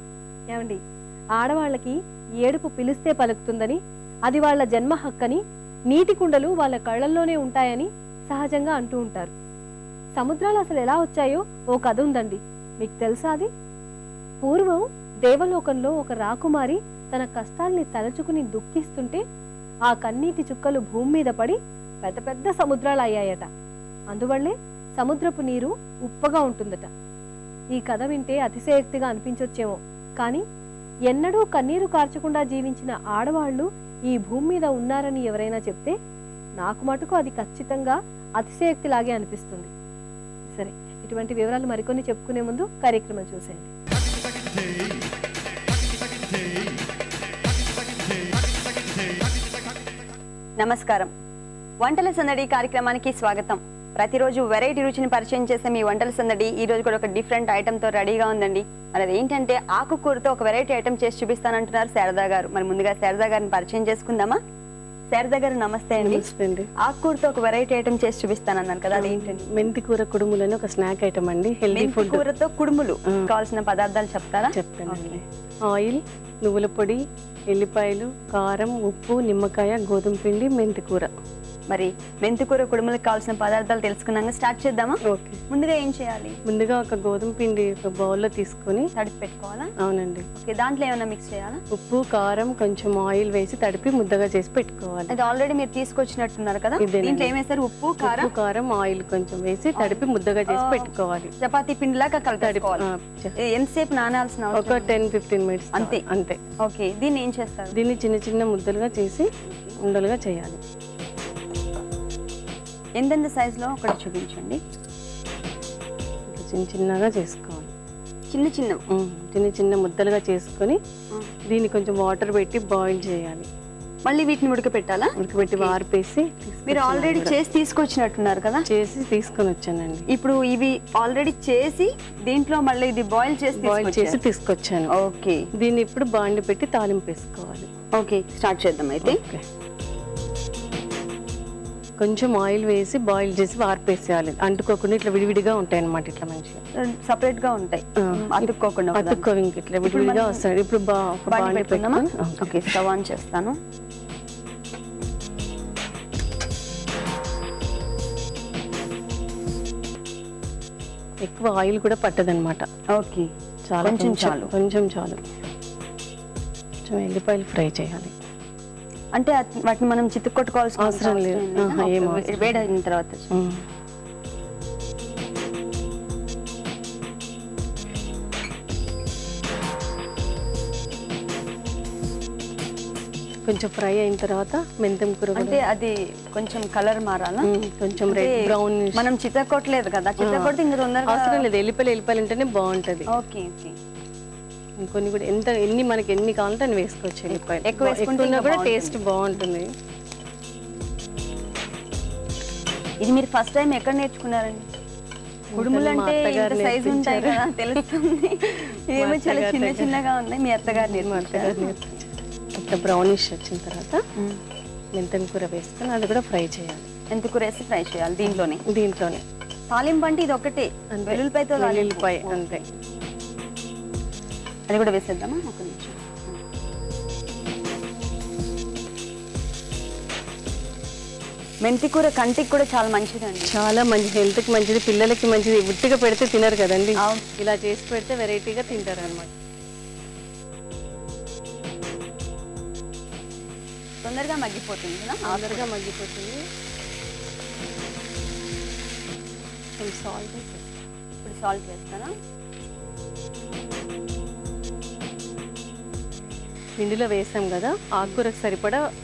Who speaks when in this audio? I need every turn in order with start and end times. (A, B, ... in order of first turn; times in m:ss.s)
0:00.5-0:00.8 A
0:01.4-0:09.3 A
0:10.2-0:13.5 A
0:14.4-0:19.2 A
0:19.9-0:23.5 A
0:24.1-0:26.9 A
0:27.7-0:30.4 A
0:31.1-0:36.0 A
0:36.6-0:39.7 A
0:40.5-0:43.7 A
0:50.6-0:51.1 B
0:51.8-1:04.4 B
1:05.1-1:06.3 B
1:06.0-1:06.7 C
1:06.8-1:09.5 B
1:08.9-1:12.2 C
1:11.7-1:15.2 B
1:14.5-1:21.1 C
1:21.7-1:26.4 B
1:25.0-1:25.4 C
1:26.5-1:28.9 C
1:29.0-1:29.7 B
1:29.8-1:30.3 C
1:30.4-1:31.6 B
1:31.7-1:35.1 C
1:35.1-1:38.3 B
1:36.8-1:37.4 C
1:38.0-1:41.3 C
1:39.8-1:42.9 B
1:42.4-1:43.4 C
1:43.4-1:45.0 B
1:44.5-1:46.4 C
1:45.7-1:46.0 B
1:46.6-1:47.8 B
1:47.7-1:50.6 C
1:49.5-1:49.8 B
1:53.0-1:54.6 B
1:56.3-1:57.7 C
1:58.3-1:58.8 B
1:58.9-2:00.8 C
2:01.5-2:03.5 C
2:04.1-2:05.8 B
2:05.2-2:07.4 C
2:06.7-2:08.7 B
2:08.7-2:10.1 C
2:10.1-2:14.2 B
2:13.6-2:14.9 C
2:14.9-2:15.4 B
2:15.6-2:17.7 C
2:18.0-2:19.2 B
2:19.0-2:19.4 C
2:22.0-2:26.6 C
2:26.8-2:29.2 B
2:28.0-2:32.8 C
2:29.8-2:30.4 B
2:31.3-2:33.6 B
2:41.2-2:42.7 C
2:43.0-2:43.3 B
2:43.7-2:45.2 C
2:43.8-2:44.5 B
2:46.8-2:48.1 C
2:49.2-2:53.3 B
2:50.8-2:52.6 C
2:53.3-2:53.6 C
3:03.4-3:05.6 C
3:05.4-3:07.5 B
3:07.4-3:09.1 C
3:08.1-3:11.4 B
3:10.2-3:13.1 C
3:13.1-3:13.8 B
3:14.8-3:19.7 C
3:17.6-3:19.0 B
3:23.0-3:24.7 B
3:25.5-3:27.6 C
3:25.6-3:31.9 B
3:29.0-3:30.0 C
3:30.7-3:34.0 C
3:35.0-3:36.9 C
3:37.1-3:38.6 B
3:38.2-3:39.2 C
3:39.7-3:42.6 B
3:40.9-3:42.6 C
3:44.7-3:46.4 B
3:51.6-3:53.5 B
3:53.4-3:59.3 C
3:57.0-3:57.3 B
3:58.7-3:59.1 B
4:04.0-4:05.7 B
4:05.2-4:06.4 C
4:09.8-4:10.7 C
4:11.2-4:12.1 B
4:16.8-4:18.8 C